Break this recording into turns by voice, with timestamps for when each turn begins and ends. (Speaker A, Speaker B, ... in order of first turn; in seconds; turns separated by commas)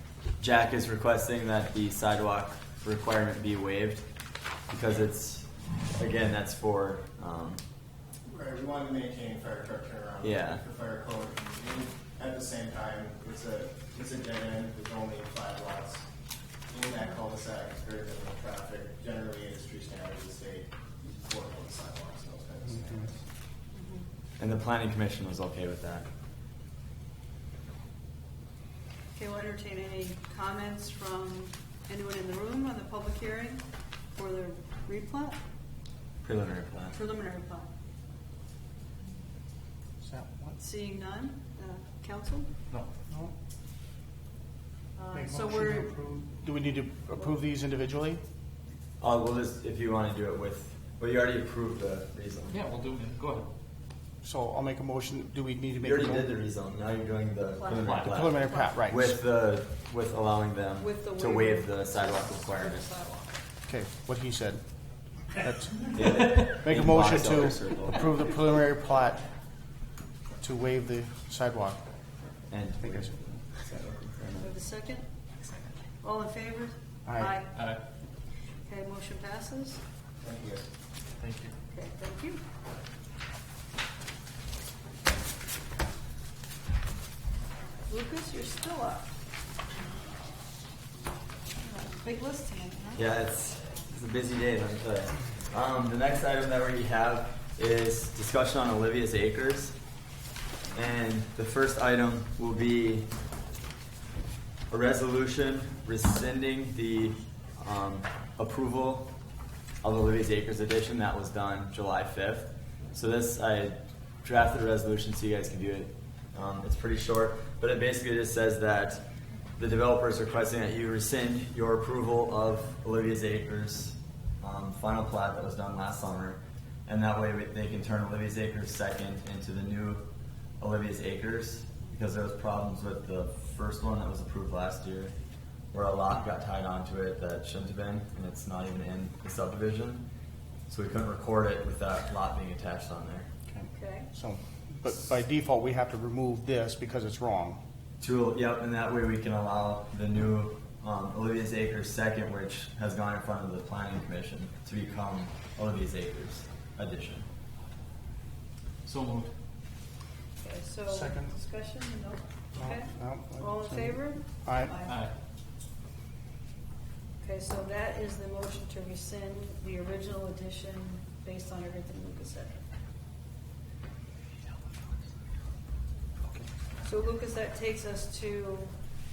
Speaker A: 0.4-4.0, Speaker A: 4.7-7.6, Speaker B: 8.3-16.1, Speaker A: 10.2-10.6, Speaker B: 16.7-23.2, Speaker C: 23.7-24.1, Speaker A: 24.4-26.1, Speaker C: 29.2-35.4, Speaker A: 36.2-37.0, Speaker C: 36.9-37.7, Speaker D: 40.0-40.6, Speaker C: 40.6-42.5, Speaker C: 45.0-45.9, Speaker D: 45.1-48.2, Speaker A: 49.0-52.6, Speaker E: 52.5-53.5, Speaker D: 54.2-56.3, Speaker A: 55.8-62.9, Speaker C: 57.6-58.7, Speaker D: 57.9-59.1, Speaker C: 60.8-63.3, Speaker D: 63.7-64.6, Speaker D: 65.4-69.2, Speaker A: 65.9-68.0, Speaker D: 70.4-71.8, Speaker A: 72.5-74.5, Speaker D: 72.8-73.2, Speaker C: 74.4-75.1, Speaker C: 76.0-77.6, Speaker D: 77.1-77.4, Speaker E: 77.5-77.8, Speaker C: 78.7-79.8, Speaker B: 80.2-80.7, Speaker E: 81.2-81.5, Speaker C: 81.7-82.4, Speaker C: 87.9-89.1, Speaker C: 91.6-93.0, Speaker A: 93.0-99.8, Speaker A: 100.7-103.1, Speaker A: 104.7-109.1, Speaker A: 109.8-119.0, Speaker A: 119.6-130.1, Speaker A: 130.6-135.1, Speaker A: 135.7-140.1, Speaker A: 140.7-143.3, Speaker D: 143.5-147.6, Speaker C: 143.7-144.1, Speaker A: 148.0-157.3, Speaker E: 158.9-159.3, Speaker C: 160.4-165.0, Speaker D: 160.9-161.3, Speaker D: 162.6-164.8, Speaker E: 164.9-165.1, Speaker C: 167.2-172.6, Speaker C: 176.8-178.7